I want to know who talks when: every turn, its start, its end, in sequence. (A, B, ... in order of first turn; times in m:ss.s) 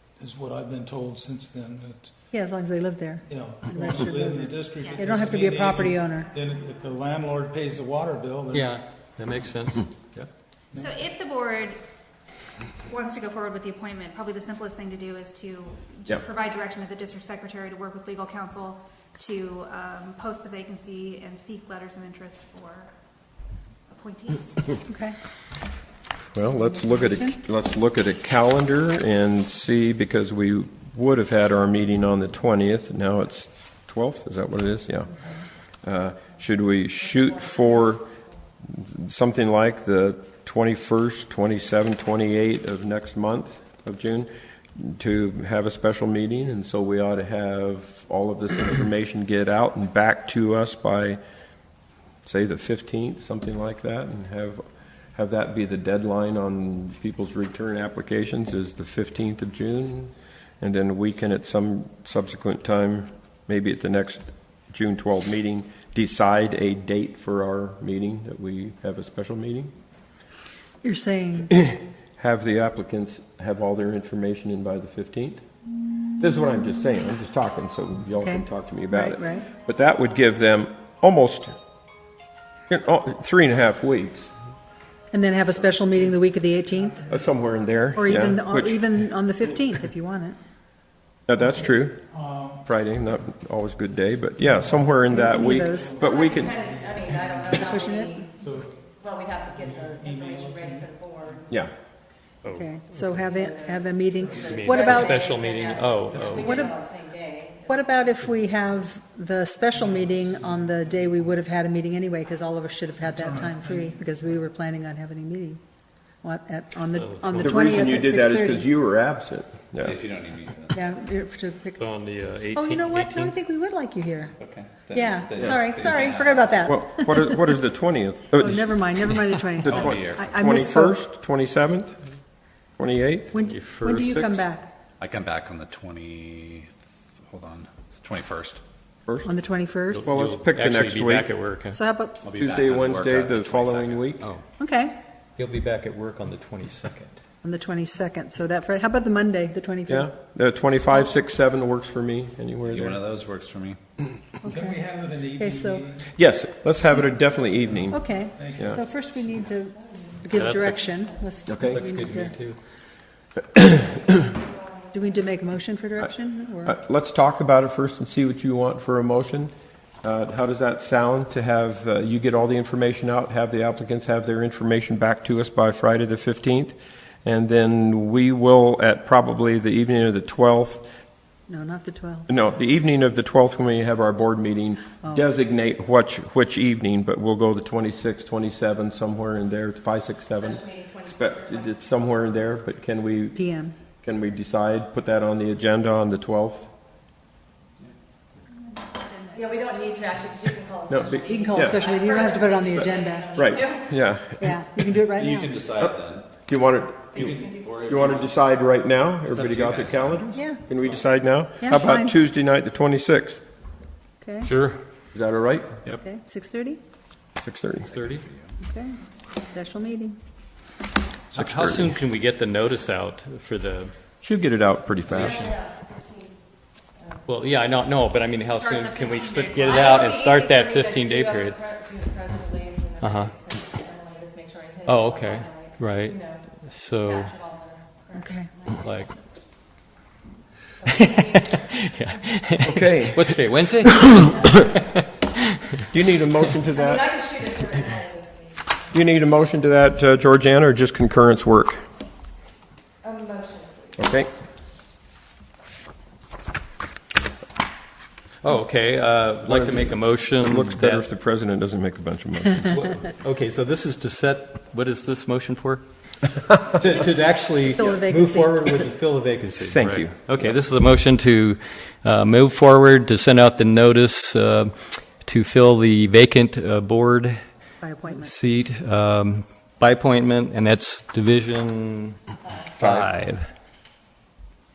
0:00.2-0:02.1 A
0:02.3-0:06.3 B
0:03.3-0:08.8 A
0:08.5-0:10.3 C
0:10.7-0:11.0 A
0:10.7-0:11.8 D
0:12.8-0:22.9 D
0:23.9-0:24.8 D
0:24.9-0:25.2 B
0:26.4-0:35.2 E
0:35.8-0:38.1 E
0:38.6-0:51.2 E
0:52.2-0:54.6 E
0:55.2-1:09.7 E
1:10.8-1:11.5 B
1:11.5-1:15.4 E
1:16.2-1:21.6 E
1:18.2-1:19.5 B
1:22.7-1:24.3 E
1:25.1-1:27.1 B
1:27.1-1:28.9 E
1:28.0-1:30.4 B
1:31.3-1:32.1 E
1:32.1-1:32.6 A
1:32.6-1:36.6 E
1:34.6-1:37.7 A
1:35.1-1:36.0 B
1:36.0-1:38.4 F
1:37.6-1:38.3 B
1:38.4-1:38.7 A
1:39.0-1:41.4 F
1:39.5-1:41.4 A
1:42.4-1:43.2 C
1:42.5-1:45.2 B
1:44.4-1:46.6 C
1:44.4-1:47.8 F
1:46.1-1:46.5 A
1:46.4-1:46.8 B
1:47.7-1:55.6 B
1:53.1-1:54.0 A
1:56.2-1:58.7 B
1:57.0-1:57.7 C
1:57.4-2:00.0 E
1:59.8-2:00.8 G
2:00.7-2:01.8 B
2:01.8-2:03.3 C
2:02.6-2:07.4 B
2:04.4-2:06.5 G
2:06.6-2:12.0 E
2:08.4-2:11.0 B
2:09.7-2:10.2 G
2:12.8-2:13.3 E
2:13.3-2:14.7 B
2:13.4-2:14.4 C
2:15.0-2:18.6 G
2:19.2-2:20.1 B
2:19.9-2:21.8 C
2:20.0-2:21.3 E
2:21.7-2:22.2 B
2:22.2-2:24.1 G
2:22.4-2:24.2 E
2:24.6-2:25.0 B
2:25.4-2:27.2 C
2:27.4-2:30.1 B
2:29.9-2:33.0 E
2:32.7-2:33.8 G
2:34.4-2:34.8 B
2:34.5-2:36.1 A
2:35.4-2:35.9 B
2:36.2-2:38.8 E
2:37.9-2:42.4 B
2:38.4-2:38.8 A
2:40.3-2:40.8 C
2:41.5-2:41.8 E
2:41.7-2:42.6 C
2:43.6-2:44.2 E
2:44.9-2:46.8 B
2:46.6-3:00.9 E
3:01.5-3:02.3 B
3:02.3-3:13.4 E
3:10.6-3:11.6 F
3:13.4-3:13.8 B
3:14.0-3:16.7 E
3:18.9-3:20.2 D
3:19.4-3:23.8 F
3:20.9-3:21.9 E
3:21.3-3:23.4 B
3:23.4-3:24.5 E
3:24.4-3:25.6 B
3:25.1-3:26.3 G
3:25.8-3:33.4 E
3:27.2-3:28.3 G
3:29.4-3:30.2 G
3:30.3-3:30.6 B
3:31.6-3:32.2 B
3:34.2-3:34.5 B
3:34.4-3:34.8 C
3:35.1-3:35.8 E
3:36.0-3:36.8 B
3:37.4-3:37.9 E
3:37.9-3:38.2 C
3:37.9-3:38.5 G
3:38.6-3:40.2 B
3:41.3-3:43.9 C
3:41.4-3:41.9 E
3:44.2-3:45.6 E
3:45.1-3:45.4 C
3:45.3-3:45.9 F
3:47.2-3:51.7 C
3:49.5-3:56.4 F
3:53.0-3:53.4 C
3:54.8-3:57.4 C
3:57.2-3:58.9 F
3:58.2-3:58.5 B
3:58.7-3:59.1 C
4:00.8-4:01.6 F
4:00.9-4:05.6 C
4:02.6-4:03.4 E
4:05.8-4:07.7 E
4:07.1-4:08.6 F
4:08.9-4:11.8 E
4:13.0-4:14.0 F
4:14.0-4:14.3 E
4:18.4-4:21.0 C
4:19.5-4:22.9 E
4:22.7-4:25.8 C
4:26.6-4:37.4 C
4:27.7-4:28.9 B
4:29.6-4:30.2 E
4:37.8-4:38.3 B
4:38.1-4:42.2 C
4:42.8-4:43.5 C